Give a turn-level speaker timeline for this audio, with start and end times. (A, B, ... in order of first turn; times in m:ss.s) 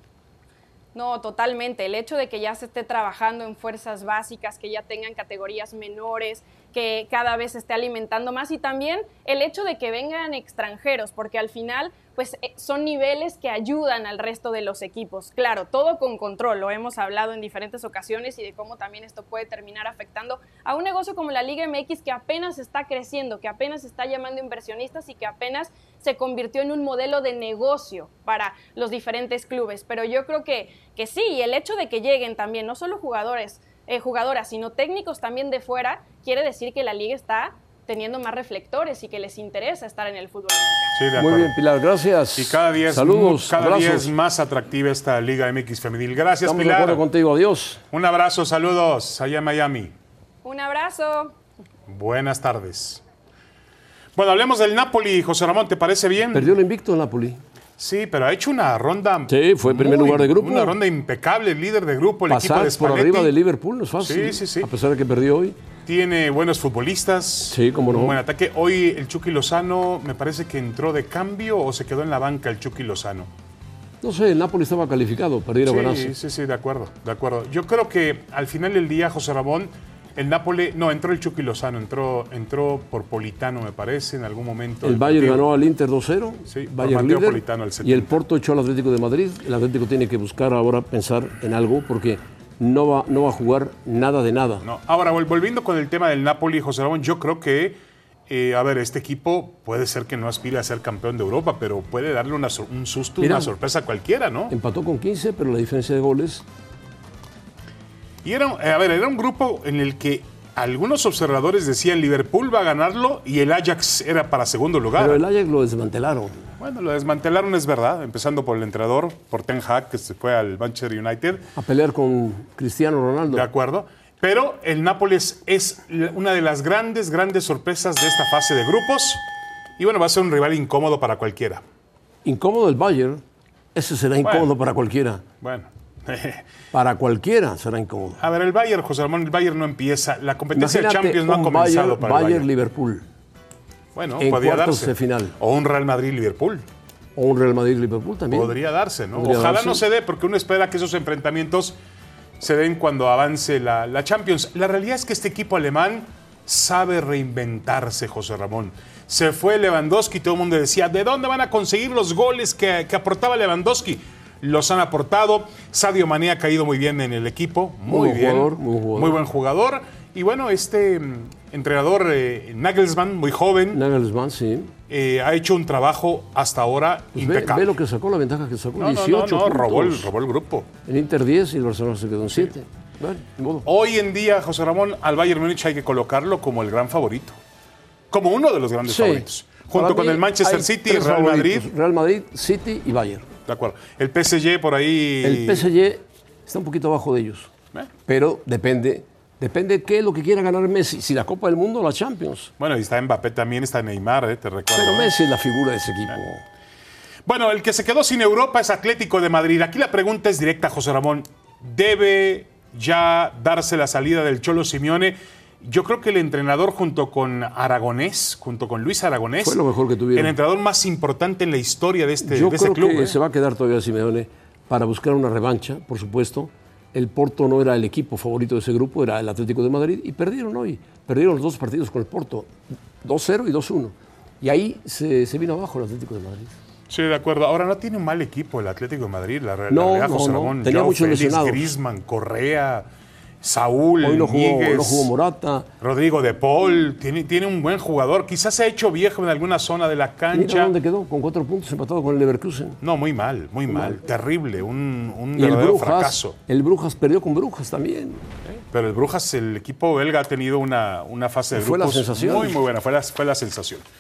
0:01.0-0:41.0 A
0:41.0-0:41.6 B
0:41.2-0:44.1 C
0:42.4-0:47.0 B
0:46.4-0:47.8 C
0:47.9-0:49.9 B
0:50.4-0:51.4 A
0:51.9-0:53.0 B
0:54.2-0:56.6 B
0:56.3-0:57.4 C
0:57.8-1:03.3 B
0:59.3-1:00.8 C
1:02.3-1:05.6 C
1:04.0-1:04.7 B
1:05.9-1:13.3 B
1:07.5-1:08.2 C
1:14.0-1:16.1 C
1:15.6-1:25.5 B
1:24.8-1:34.7 C
1:26.5-1:28.1 B
1:34.6-1:37.8 B
1:38.3-1:44.5 B
1:43.2-1:43.5 C
1:44.5-1:46.4 C
1:48.2-1:55.2 B
1:55.0-1:56.4 C
1:56.6-2:01.5 B
2:01.6-2:03.5 C
2:03.3-2:09.2 B
2:09.8-2:11.6 B
2:12.2-2:13.2 C
2:13.7-2:15.2 C
2:14.2-2:14.5 B
2:15.4-2:16.4 B
2:16.7-2:18.2 C
2:18.2-2:22.5 B
2:20.5-2:23.0 C
2:24.0-2:26.6 B
2:24.2-2:25.4 C
2:27.2-2:28.6 C
2:28.3-2:31.8 B
2:29.1-2:29.8 C
2:32.4-2:53.8 B
2:47.9-2:49.2 C
2:53.7-2:54.7 C
2:54.9-2:57.7 B
2:57.2-3:00.1 C
2:58.8-3:00.7 B
3:00.8-3:03.7 C
3:03.7-3:07.4 B
3:08.1-3:11.7 B
3:08.9-3:13.3 C
3:13.5-3:15.7 B
3:15.2-3:17.5 C
3:18.1-3:22.5 C
3:22.6-3:25.1 B
3:24.7-3:26.4 C
3:27.2-3:39.6 B
3:39.4-3:40.3 C
3:40.2-3:43.2 B
3:42.2-3:52.5 C
3:53.0-3:56.5 C
3:56.9-4:02.9 B
3:59.7-4:01.7 C
4:03.4-4:05.1 B
4:04.0-4:05.7 C
4:05.8-4:10.7 B
4:10.3-4:12.8 C
4:12.8-4:16.4 B
4:13.7-4:14.0 C
4:15.4-4:18.2 C
4:18.6-4:23.8 B
4:21.5-4:22.6 C